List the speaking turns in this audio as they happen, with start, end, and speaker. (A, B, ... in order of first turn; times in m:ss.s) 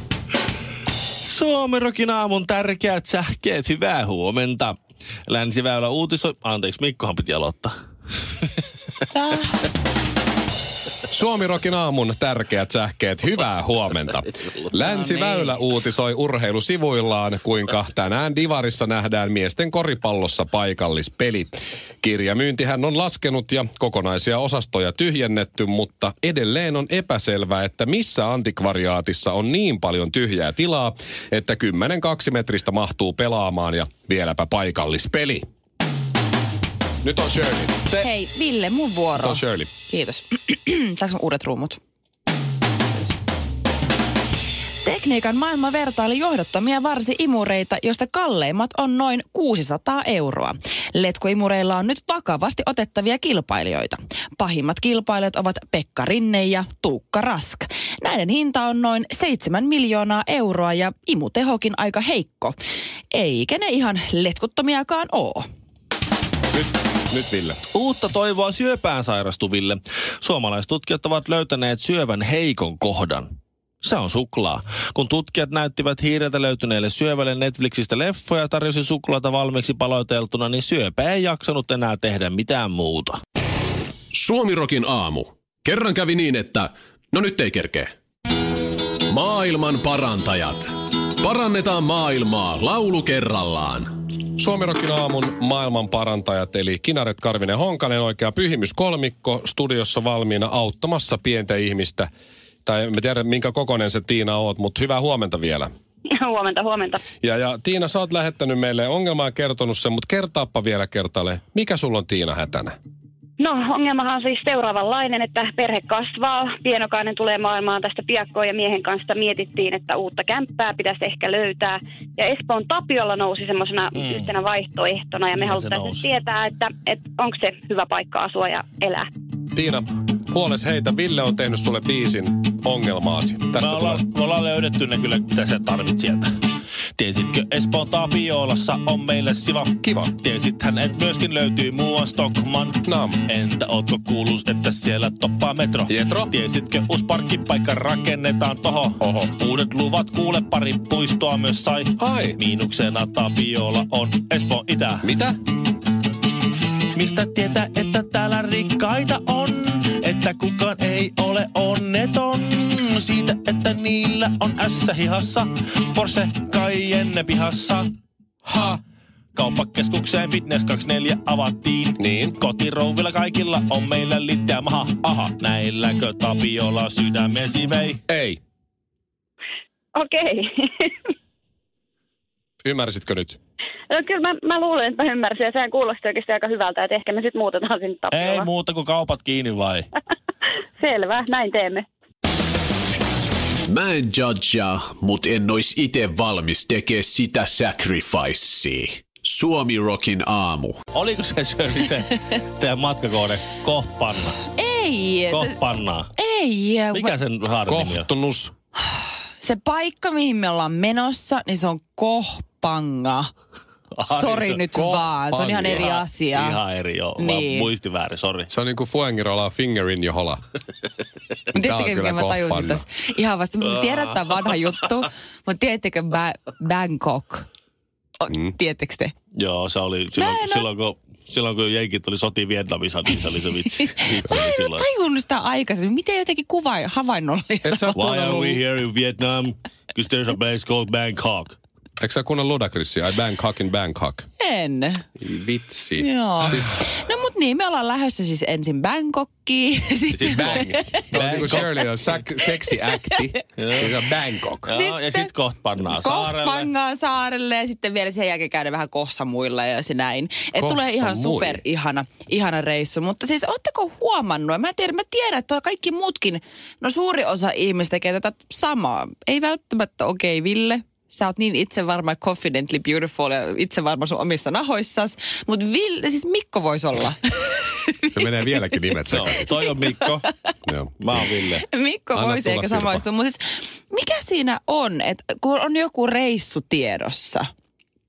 0:01.2-0:04.7 A
0:05.3-0:07.7 A
0:09.1-0:09.5 B
0:11.1-0:35.4 C
0:14.7-0:15.5 B
0:37.0-0:38.1 C
0:38.0-0:41.8 B
0:39.1-0:39.7 C
0:44.8-1:02.6 B
1:03.1-1:05.4 B
1:06.5-1:07.6 C
1:07.7-1:13.3 A
1:13.8-1:23.2 A
1:24.1-1:27.9 D
1:29.1-1:33.9 D
1:34.4-1:42.1 C
1:42.6-1:45.7 C
1:46.2-1:47.0 E
1:47.2-1:52.7 C
1:53.4-2:09.1 E
2:03.9-2:04.3 A
2:05.3-2:06.0 A
2:09.5-2:14.0 C
2:13.5-2:16.3 A
2:17.0-2:35.1 A
2:19.8-2:20.1 C
2:22.8-2:23.2 C
2:25.9-2:26.3 C
2:29.0-2:29.3 C
2:32.0-2:32.4 C
2:35.0-2:35.4 C
2:36.9-2:47.9 A
2:48.4-2:48.8 C
2:49.3-2:58.0 A
2:52.0-2:52.4 C
2:55.0-2:55.3 C
2:58.1-2:58.4 C
3:00.0-3:00.4 E
3:02.6-3:03.4 C
3:03.9-3:08.4 E
3:08.1-3:09.9 A
3:10.8-3:11.8 E
3:13.7-3:20.8 D
3:20.9-3:24.4 A
3:24.6-3:25.6 B
3:25.3-3:26.1 A
3:26.2-3:27.1 B
3:26.9-3:28.1 A
3:27.6-3:28.5 C
3:28.9-3:33.3 B
3:33.9-3:34.6 A
3:34.1-3:36.6 B
3:34.7-3:36.0 C
3:35.7-3:38.5 A
3:37.2-3:37.7 B
3:38.5-3:40.4 C
3:41.5-3:47.5 B
3:41.5-3:42.8 C
3:48.2-3:49.1 B
3:49.3-3:54.8 A
3:50.2-3:50.7 B
3:53.8-3:58.0 B
3:57.6-3:58.6 C
3:57.9-4:01.6 A
4:02.0-4:04.3 C
4:04.4-4:05.0 B
4:05.2-4:06.8 C
4:06.0-4:11.0 B
4:10.1-4:11.7 A
4:10.3-4:14.7 C
4:13.6-4:13.9 A
4:14.7-4:16.7 A
4:14.7-4:15.3 B
4:15.8-4:38.7 B
4:20.6-4:21.6 C
4:38.2-4:39.5 C
4:39.1-4:40.3 A
4:40.6-4:40.9 C
4:41.0-4:41.6 A
4:41.7-4:47.5 B
4:42.1-4:43.0 C